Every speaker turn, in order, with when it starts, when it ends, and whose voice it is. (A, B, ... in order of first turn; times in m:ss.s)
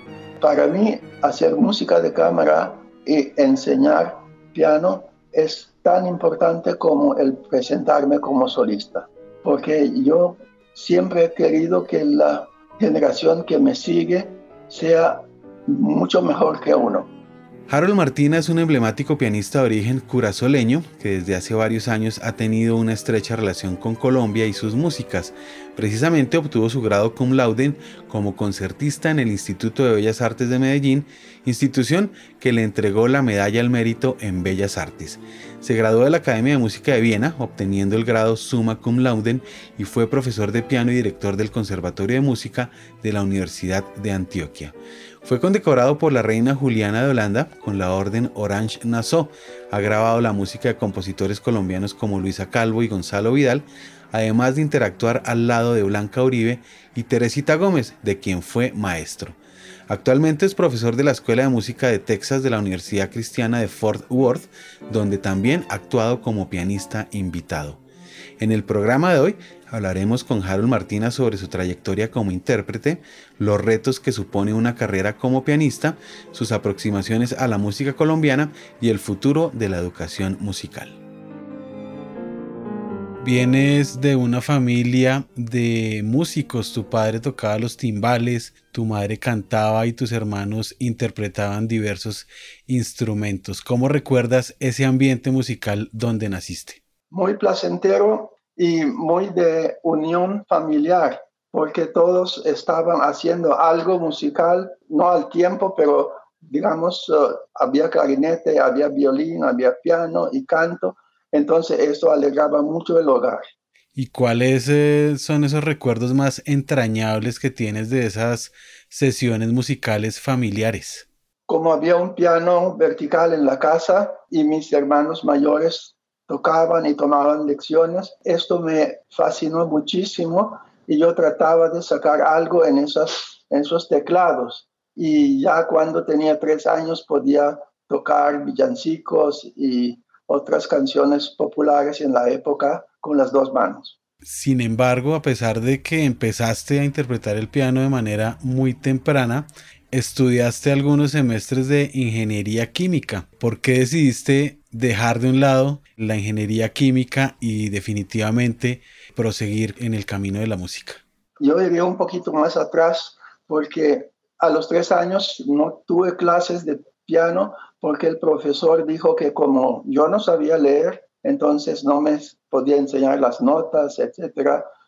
0:00.4-0:17.1 A
0:17.7-0:59.4 B
0:59.9-1:07.8 B
1:08.4-1:21.0 B
1:23.2-1:36.8 B
1:37.1-1:53.5 A
1:53.9-2:01.0 B
2:01.5-2:24.0 A
2:24.2-2:41.0 B
2:41.4-2:54.6 A